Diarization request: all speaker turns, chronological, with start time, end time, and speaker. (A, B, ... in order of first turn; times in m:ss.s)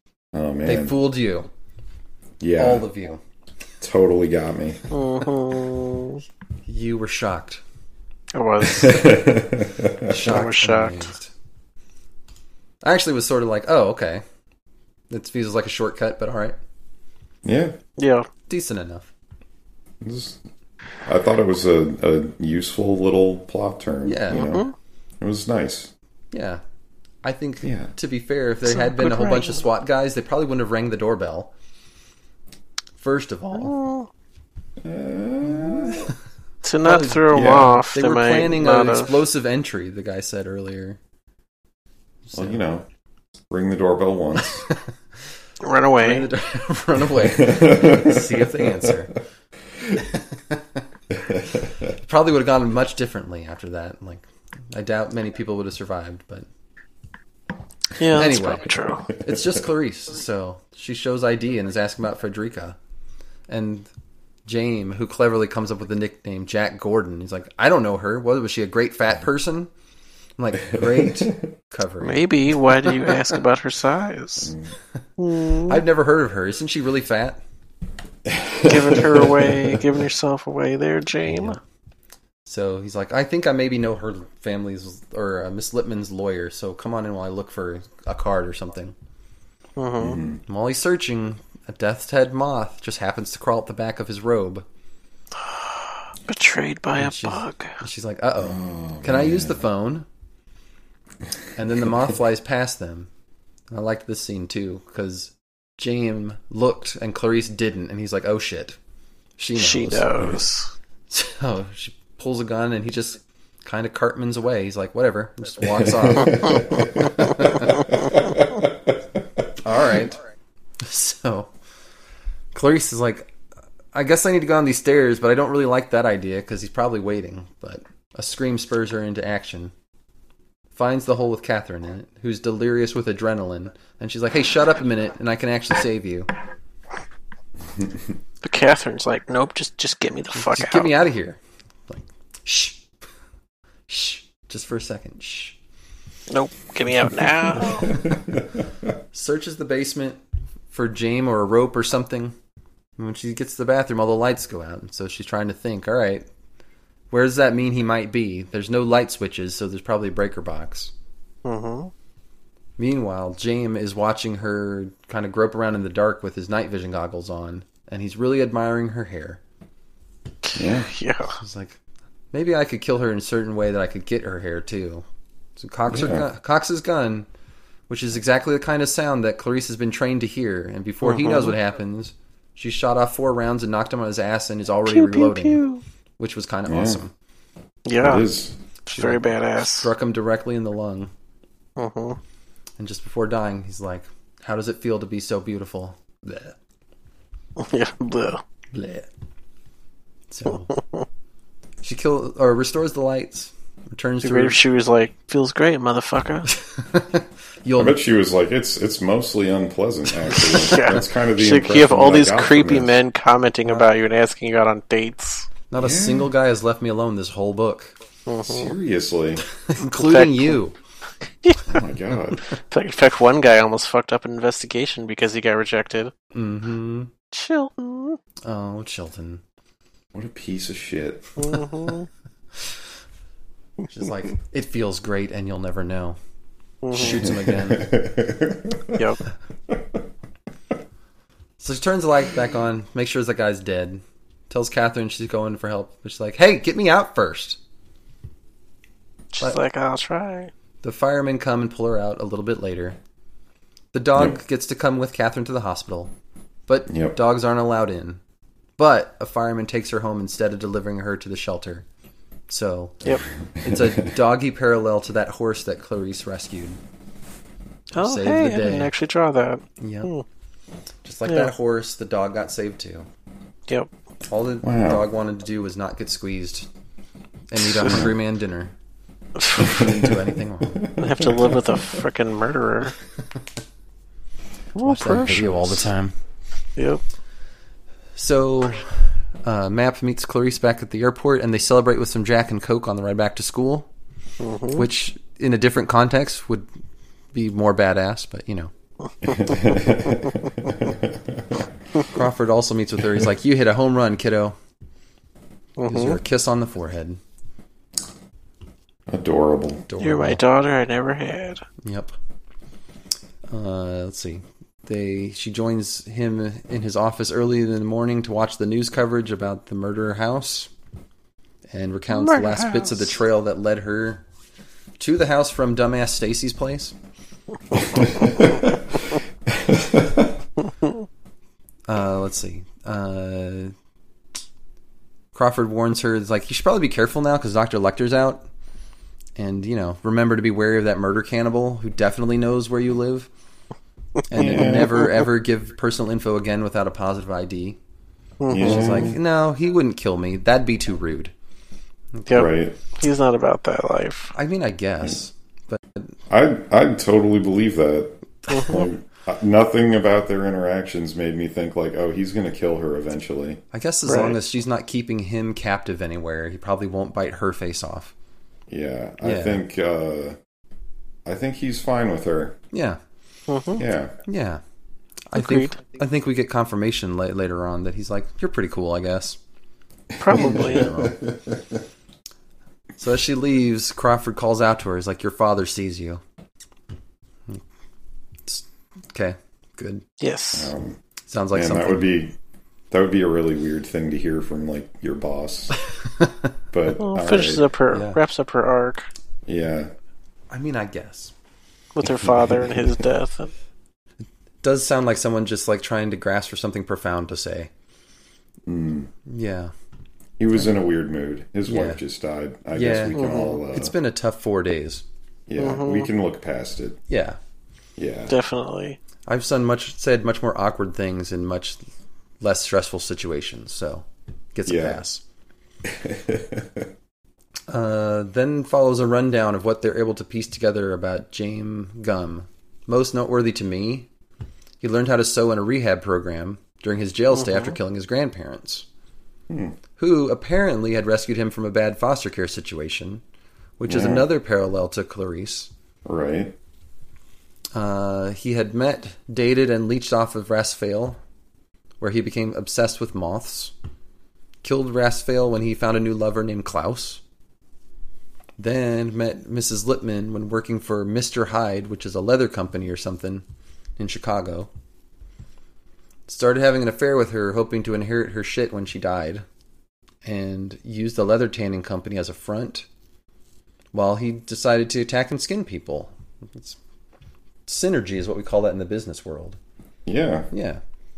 0:00.3-0:01.0 A
0:00.6-0:01.5 B
0:02.4-0:02.8 A
0:02.6-0:03.2 B
0:03.8-0:04.9 A
0:04.9-0:06.2 C
0:06.7-0:07.6 B
0:08.3-0:09.2 C
0:08.7-0:10.2 A
0:10.1-0:11.3 B
0:10.2-0:11.1 C
0:12.8-0:14.2 B
0:15.1-0:16.6 B
0:17.4-0:17.8 A
0:18.0-0:18.3 C
0:18.5-0:19.1 B
0:20.0-0:20.4 A
0:21.0-0:24.7 A
0:24.0-0:24.6 B
0:24.3-0:24.7 C
0:25.2-0:25.9 A
0:26.3-0:26.6 B
0:27.2-0:31.5 B
0:27.6-0:27.9 A
0:28.6-0:29.6 C
0:33.0-0:33.8 B
0:33.6-0:34.1 C
0:34.8-0:36.1 A
0:35.4-0:36.1 B
0:36.6-0:39.1 C
0:36.8-0:41.0 B
0:37.3-0:37.8 A
0:42.2-0:42.6 B
0:42.4-0:42.8 A
0:43.5-0:44.7 A
0:44.4-0:44.8 B
0:45.6-0:46.3 C
0:46.0-0:49.1 B
0:47.4-0:49.0 A
0:49.9-0:50.8 B
0:51.3-0:51.6 A
0:51.8-0:56.5 B
0:58.0-0:59.1 C
0:58.1-1:02.8 B
1:03.5-1:03.9 B
1:04.5-1:09.7 B
1:10.4-1:12.3 B
1:10.7-1:11.4 A
1:12.0-1:14.5 C
1:14.4-1:14.7 A
1:15.2-1:15.8 C
1:15.5-1:17.4 B
1:18.3-1:19.8 A
1:18.6-1:21.6 C
1:21.3-1:21.6 B
1:22.4-1:29.0 B
1:29.8-1:30.2 C
1:30.0-1:30.4 A
1:30.4-1:34.7 B
1:35.5-1:37.8 C
1:37.0-1:40.1 B
1:38.4-1:39.6 A
1:41.6-1:43.1 B
1:43.7-1:48.8 B
1:49.4-1:50.4 B
1:49.6-1:50.7 C
1:51.1-1:58.1 B
1:56.1-1:58.7 A
1:59.6-2:00.2 B
2:00.8-2:01.5 B
2:02.5-2:03.3 B
2:03.9-2:09.7 B
2:10.7-2:16.3 B
2:18.4-2:20.9 C
2:20.4-2:22.8 B
2:23.9-2:25.6 B
2:26.3-2:28.0 C
2:27.6-2:28.2 B
2:29.1-2:32.4 B
2:33.0-2:36.3 B
2:37.1-2:40.9 B
2:41.4-2:41.9 C
2:42.8-2:49.4 B
2:50.4-2:51.4 C
2:50.6-2:50.9 A
2:51.4-2:51.8 B
2:52.3-2:55.1 B
2:55.6-2:57.3 B
2:55.9-2:56.2 A
2:57.9-3:05.6 B
3:01.0-3:01.6 C
3:04.9-3:05.8 C
3:06.2-3:07.1 B
3:06.7-3:07.0 A
3:07.9-3:08.3 C
3:08.0-3:08.6 A
3:08.9-3:09.9 C
3:08.9-3:11.1 B
3:11.8-3:12.2 C
3:12.8-3:16.6 B
3:17.6-3:18.4 C
3:18.7-3:19.1 B
3:20.3-3:20.7 B
3:20.7-3:21.0 C
3:21.8-3:24.6 B
3:24.2-3:26.5 C
3:26.6-3:28.0 B
3:27.8-3:33.0 A
3:30.3-3:35.5 C
3:33.7-3:33.9 B
3:35.7-3:38.0 B
3:35.8-3:36.3 A
3:38.3-3:38.7 C
3:38.4-3:39.5 A
3:39.6-3:40.8 B
3:39.9-3:40.6 C
3:41.7-3:42.4 A
3:42.5-3:46.1 C
3:46.3-3:47.1 B
3:47.3-3:48.2 C
3:48.4-3:49.4 B
3:50.1-3:51.4 A
3:51.4-3:52.1 C
3:53.9-3:56.2 B
3:56.8-3:57.3 C
3:56.9-3:58.0 B
3:57.1-3:59.0 A
3:59.0-3:59.2 C
4:01.6-4:07.6 B
4:09.3-4:10.5 C
4:10.8-4:13.0 B
4:13.9-4:16.1 B
4:16.7-4:18.2 B
4:16.9-4:17.2 A
4:18.8-4:21.9 B
4:22.5-4:26.8 B
4:23.6-4:24.1 A
4:28.0-4:30.2 C
4:28.0-4:28.9 B
4:29.8-4:30.1 B
4:31.0-4:33.1 B
4:31.3-4:31.5 C
4:34.3-4:36.7 B
4:34.6-4:35.0 A
4:37.5-4:38.7 B
4:39.4-4:39.8 C
4:39.6-4:40.9 B
4:39.6-4:40.2 A
4:40.7-4:41.6 A
4:41.0-4:43.0 C
4:44.8-4:45.8 C
4:44.8-4:46.1 B
4:46.8-4:47.0 C
4:48.2-4:53.9 B
4:54.4-4:54.9 C
4:54.7-4:56.7 B
4:57.3-4:58.7 B
4:59.3-5:01.6 A
4:59.3-4:59.7 C
5:02.1-5:04.6 B
5:05.8-5:06.2 C
5:05.9-5:07.2 B
5:09.1-5:09.9 A
5:09.9-5:10.4 B
5:10.0-5:11.6 C
5:11.8-5:12.1 B
5:13.5-5:20.7 B
5:21.7-5:24.2 B
5:22.1-5:23.1 C
5:25.0-5:27.0 B
5:28.1-5:28.8 A
5:29.5-5:30.3 A
5:31.9-5:33.7 B
5:35.3-5:38.5 B
5:39.4-5:43.3 B
5:44.3-5:47.8 B
5:44.3-5:45.2 A
5:48.4-5:48.9 C
5:48.5-5:49.2 A
5:48.5-5:51.3 B
5:52.1-5:52.5 B
5:52.3-5:54.3 C
5:52.3-5:52.8 A
5:54.3-5:56.1 B
5:56.3-6:03.6 A
5:58.5-5:58.8 C
6:03.7-6:08.1 B
6:04.1-6:04.4 C
6:08.7-6:10.4 A
6:09.2-6:09.6 B
6:11.2-6:12.6 A
6:12.7-6:13.0 B
6:13.5-6:13.8 C
6:13.8-6:14.2 A
6:14.2-6:14.6 B
6:15.3-6:19.4 B
6:15.4-6:15.8 C
6:20.2-6:20.9 C
6:20.3-6:21.6 A
6:20.3-6:21.2 B
6:23.0-6:26.2 B
6:28.5-6:30.0 B
6:30.2-6:30.7 C
6:30.5-6:31.0 A
6:31.3-6:32.1 B
6:31.5-6:32.4 A
6:32.9-6:35.8 A
6:36.7-6:37.7 A
6:37.0-6:39.1 C
6:37.9-6:38.2 B
6:39.5-6:39.9 A
6:40.5-6:41.3 B
6:42.0-6:43.5 C
6:42.0-6:42.9 A
6:44.6-6:47.7 B
6:48.7-6:49.1 A
6:49.3-6:49.7 B
6:50.4-6:53.9 A
6:51.7-6:52.0 B
6:52.7-6:55.0 B
6:53.1-6:53.6 C
6:55.5-6:57.0 A
6:55.6-6:56.1 C
6:57.1-6:57.4 B
6:58.0-6:58.4 A
6:58.3-6:59.0 C
6:59.3-7:01.8 B
7:02.4-7:05.2 B
7:04.7-7:05.0 A
7:05.8-7:06.9 A
7:07.7-7:14.1 B
7:14.8-7:18.9 B
7:19.5-7:19.8 A
7:20.0-7:23.2 B
7:23.8-7:25.7 B
7:23.9-7:24.3 A
7:26.0-7:26.6 A
7:27.7-7:31.2 B
7:32.0-7:33.8 B
7:34.6-7:37.2 B
7:38.6-7:43.4 B
7:44.0-7:44.7 B
7:46.3-7:49.4 B
7:50.2-7:52.9 B
7:53.9-7:56.8 B
7:57.7-7:59.6 B
8:00.1-8:00.5 A
8:00.5-8:00.8 B